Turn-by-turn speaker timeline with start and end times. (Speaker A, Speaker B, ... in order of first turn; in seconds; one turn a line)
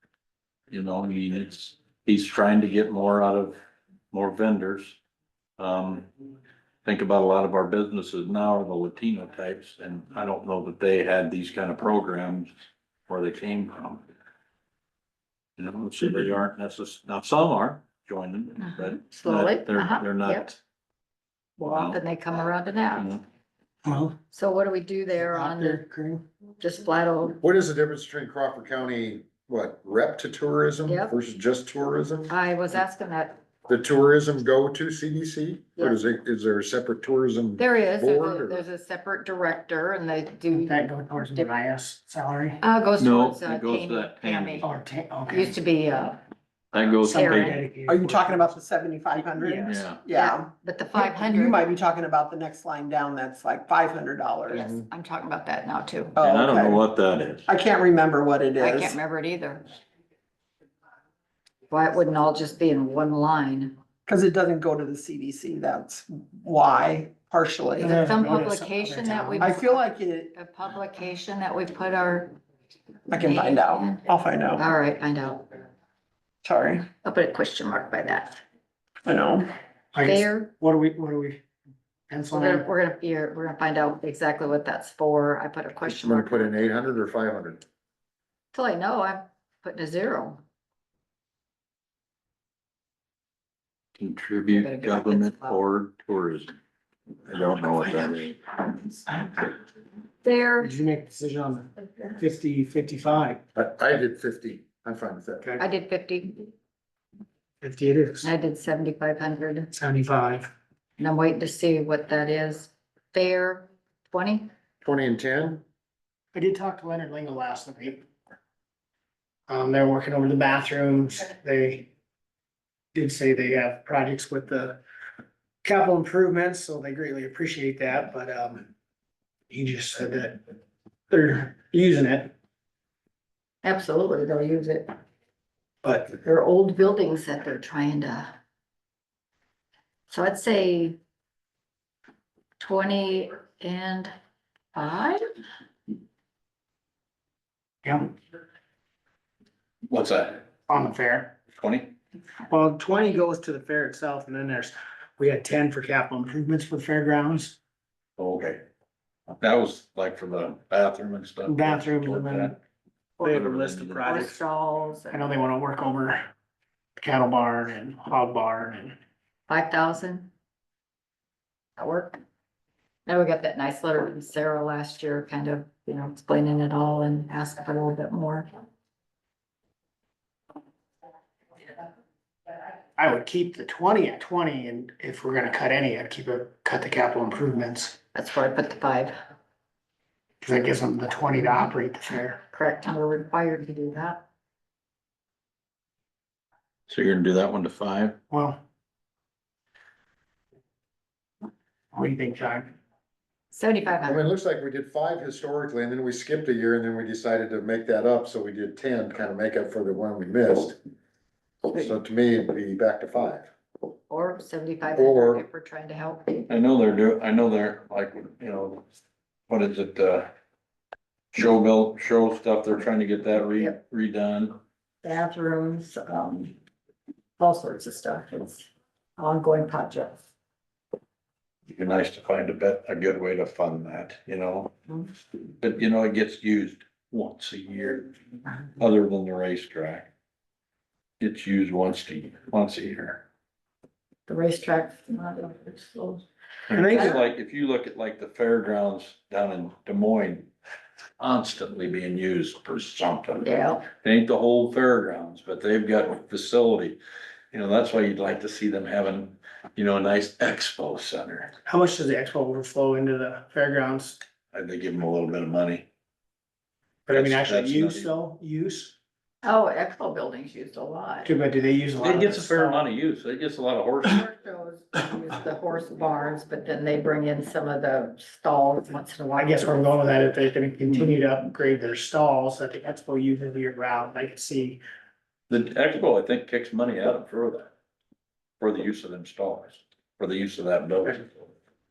Speaker A: 0.7-3.6
Speaker A: 4.1-5.0
Speaker A: 5.6-6.1
Speaker A: 6.8-12.5
Speaker A: 13.1-14.0
Speaker A: 15.6-20.6
Speaker B: 18.8-20.5
Speaker B: 21.6-23.2
Speaker A: 21.6-22.0
Speaker A: 22.9-23.2
Speaker C: 23.8-24.1
Speaker B: 24.3-25.8
Speaker C: 25.2-26.2
Speaker B: 26.6-27.4
Speaker D: 27.4-32.3
Speaker B: 30.9-31.1
Speaker B: 32.3-33.4
Speaker D: 33.7-38.6
Speaker B: 37.6-41.5
Speaker C: 40.5-42.6
Speaker B: 42.6-44.7
Speaker A: 43.0-44.7
Speaker C: 44.6-45.5
Speaker B: 45.3-46.2
Speaker A: 46.7-47.6
Speaker B: 47.0-47.6
Speaker C: 47.1-48.5
Speaker E: 47.9-54.7
Speaker C: 49.3-49.7
Speaker A: 49.6-50.0
Speaker B: 50.1-51.7
Speaker B: 54.5-56.1
Speaker E: 56.1-56.8
Speaker A: 56.2-57.5
Speaker E: 57.5-59.0
Speaker B: 58.6-59.6
Speaker B: 61.7-63.8
Speaker E: 64.0-68.0
Speaker B: 67.8-72.3
Speaker C: 67.8-69.5
Speaker E: 69.4-70.3
Speaker E: 73.1-74.6
Speaker B: 73.1-74.0
Speaker B: 74.5-75.6
Speaker E: 76.4-76.9
Speaker B: 77.0-78.4
Speaker E: 79.0-79.5
Speaker C: 79.9-81.4
Speaker B: 80.0-80.5
Speaker C: 82.1-82.7
Speaker B: 82.3-86.6
Speaker D: 85.8-87.6
Speaker B: 88.5-90.4
Speaker A: 94.0-96.5
Speaker B: 94.5-95.6
Speaker A: 97.3-98.4
Speaker B: 100.2-100.7
Speaker C: 100.6-103.4
Speaker D: 103.5-105.5
Speaker B: 105.6-106.5
Speaker C: 107.6-108.3
Speaker B: 108.2-109.7
Speaker C: 109.7-110.5
Speaker B: 111.0-114.5
Speaker D: 114.8-115.6
Speaker C: 116.3-118.0
Speaker C: 119.5-121.9
Speaker C: 122.9-124.8
Speaker C: 125.6-128.7
Speaker C: 129.5-130.4
Speaker C: 131.1-132.3
Speaker B: 133.6-134.9
Speaker C: 135.8-136.1
Speaker B: 136.1-138.3
Speaker B: 140.1-141.0
Speaker B: 142.6-144.1
Speaker B: 144.7-145.2
Speaker C: 147.8-148.1
Speaker A: 149.9-150.4
Speaker C: 150.7-151.3
Speaker A: 151.5-151.9
Speaker C: 152.5-157.6
Speaker A: 158.2-158.6
Speaker A: 159.4-162.6
Speaker C: 161.4-162.6
Speaker C: 163.2-164.4
Speaker A: 163.2-164.3
Speaker B: 164.0-165.3
Speaker C: 165.1-166.2
Speaker C: 167.0-169.0
Speaker B: 169.5-170.3
Speaker B: 171.8-172.2
Speaker B: 173.1-178.5
Speaker C: 183.0-188.0
Speaker B: 188.1-189.1
Speaker C: 190.4-192.4
Speaker B: 192.5-194.2
Speaker A: 196.9-198.2
Speaker C: 198.3-198.6
Speaker C: 201.9-202.7
Speaker B: 203.5-204.2
Speaker D: 204.0-210.8
Speaker D: 211.7-213.5
Speaker B: 214.1-216.5
Speaker D: 214.9-215.4
Speaker A: 216.5-218.8
Speaker A: 219.5-220.3
Speaker A: 221.3-224.5
Speaker B: 225.0-226.6
Speaker B: 227.4-230.2
Speaker A: 231.7-234.8
Speaker A: 235.6-238.1
Speaker A: 238.8-240.1
Speaker A: 241.2-243.2
Speaker B: 244.3-246.2
Speaker A: 246.7-250.5
Speaker C: 246.7-247.2
Speaker A: 251.2-257.0
Speaker B: 253.4-253.8
Speaker A: 257.5-261.5
Speaker C: 261.6-264.2
Speaker A: 264.5-265.9
Speaker C: 267.1-268.9
Speaker A: 267.1-268.1
Speaker B: 269.4-271.3
Speaker C: 271.2-272.8
Speaker A: 272.0-274.2
Speaker B: 274.0-280.0
Speaker C: 279.3-284.8
Speaker A: 285.5-287.7
Speaker A: 288.6-291.5